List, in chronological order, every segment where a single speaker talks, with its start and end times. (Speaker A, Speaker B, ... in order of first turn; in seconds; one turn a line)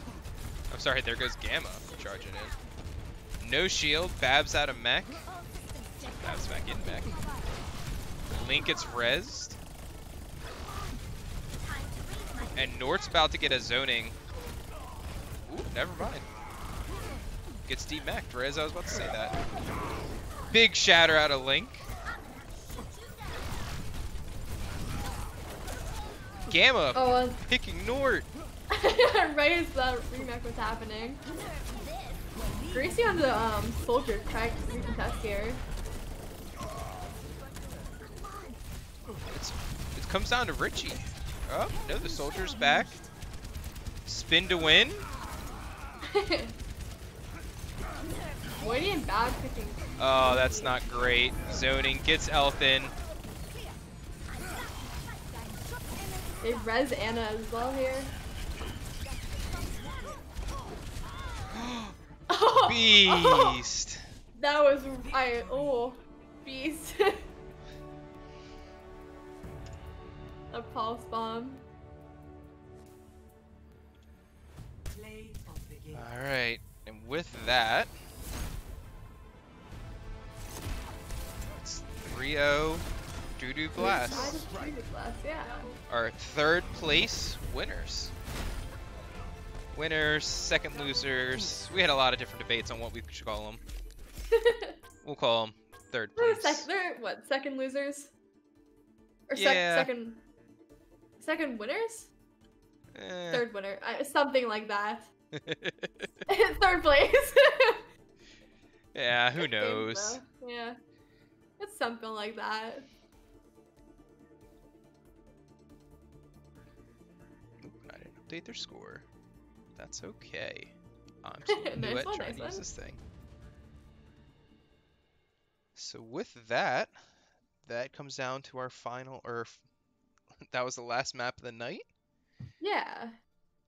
Speaker A: 0.7-2.6
Speaker A: 3.4-5.3
Speaker A: 6.2-7.2
Speaker A: 8.3-9.6
Speaker B: 12.2-12.5
Speaker A: 12.6-14.2
Speaker A: 15.5-16.3
Speaker A: 17.7-19.4
Speaker A: 20.5-21.9
Speaker A: 26.5-28.3
Speaker C: 26.9-27.4
Speaker C: 28.7-31.2
Speaker C: 32.7-35.6
Speaker A: 39.3-43.0
Speaker A: 44.1-45.1
Speaker C: 46.1-46.5
Speaker C: 48.6-50.8
Speaker A: 50.0-52.9
Speaker B: 54.5-56.4
Speaker C: 56.4-58.1
Speaker B: 59.1-60.3
Speaker A: 61.5-61.9
Speaker C: 62.3-63.6
Speaker A: 62.6-64.0
Speaker C: 64.3-67.3
Speaker B: 65.0-66.0
Speaker C: 70.5-71.6
Speaker B: 74.9-76.1
Speaker A: 75.9-77.9
Speaker A: 81.5-82.9
Speaker A: 83.4-84.4
Speaker C: 83.8-85.7
Speaker A: 85.9-88.1
Speaker A: 89.7-93.6
Speaker C: 94.3-94.8
Speaker A: 95.0-96.7
Speaker C: 96.2-98.1
Speaker C: 99.3-100.2
Speaker A: 99.3-99.9
Speaker C: 101.2-102.1
Speaker A: 102.9-103.5
Speaker C: 103.3-105.1
Speaker A: 105.3-106.0
Speaker C: 106.3-107.8
Speaker A: 108.9-110.2
Speaker C: 109.4-110.8
Speaker C: 111.6-112.9
Speaker A: 117.6-119.1
Speaker A: 119.8-120.7
Speaker A: 121.2-123.0
Speaker C: 121.5-122.7
Speaker A: 125.8-126.9
Speaker A: 127.7-129.6
Speaker A: 130.5-131.9
Speaker C: 132.6-133.2